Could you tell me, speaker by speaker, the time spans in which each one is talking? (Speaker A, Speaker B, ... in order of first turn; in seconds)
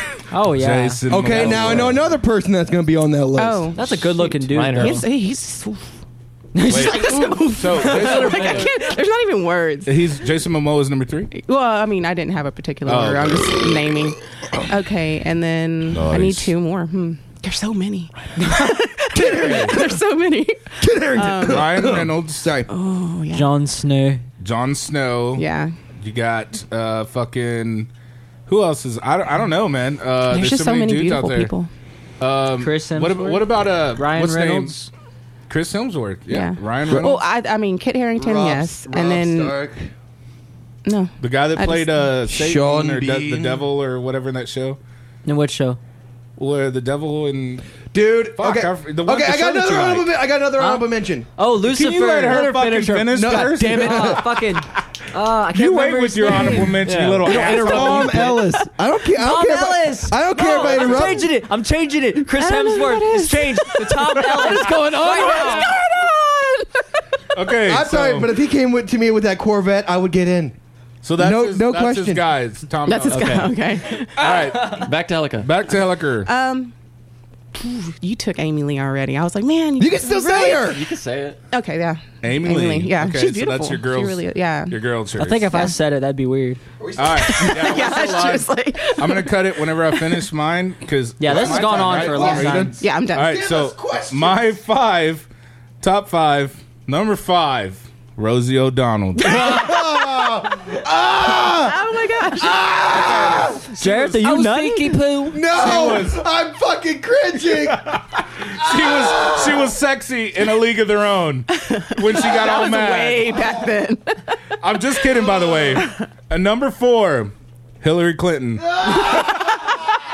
Speaker A: 0.3-1.0, 3.7-5.0, 6.5-8.4, 23.3-24.2, 32.6-34.9, 45.2-45.8, 50.6-56.8, 59.1-65.7, 74.2-74.5, 85.2-86.6, 91.2-92.8, 103.7-105.3
Speaker B: 0.5-2.1, 6.7-8.7, 9.8-11.3, 12.8-13.7, 15.9-16.5, 19.4-19.7, 21.4-22.5, 24.4-25.4, 26.0-27.9, 28.5-31.5, 32.2-34.8, 35.5-37.2, 41.2-44.8, 46.4-47.7, 48.4-50.1, 51.6-54.2, 55.5-58.4, 60.8-61.1, 67.3-68.3, 71.0-76.3, 82.2-85.6, 87.0-95.3, 95.8-99.7, 103.0-104.2, 105.5-106.2, 107.5-113.5, 114.6-119.1
Speaker C: 1.1-3.7, 19.1-19.8, 20.8-22.7, 38.1-39.9, 42.3-43.7, 47.9-51.3, 53.1-54.4, 57.2-61.3, 67.6-70.5, 71.2-72.2, 79.8-80.8, 86.8-88.1, 91.3-94.5, 99.2-103.6, 105.3-108.0, 108.6-109.7, 118.6-119.7
Speaker D: 1.4-1.9, 3.9-5.0, 7.8-8.7, 53.3-54.2, 56.7-58.5, 64.4-65.8, 73.1-73.5, 74.6-75.5, 80.5-81.4, 104.1-105.3
Speaker E: 3.4-5.8, 6.6-10.1, 11.3-21.8, 22.7-23.5, 25.4-25.7, 30.3-31.7, 36.3-39.5, 40.8-42.1, 56.3-56.5, 62.4-66.8, 72.8-74.8, 76.2-76.7, 77.5-80.8, 81.5-84.8, 85.5-85.7, 87.1-90.2, 92.8-93.4, 99.4-99.8, 101.5-102.6, 111.5-114.4, 115.2-116.0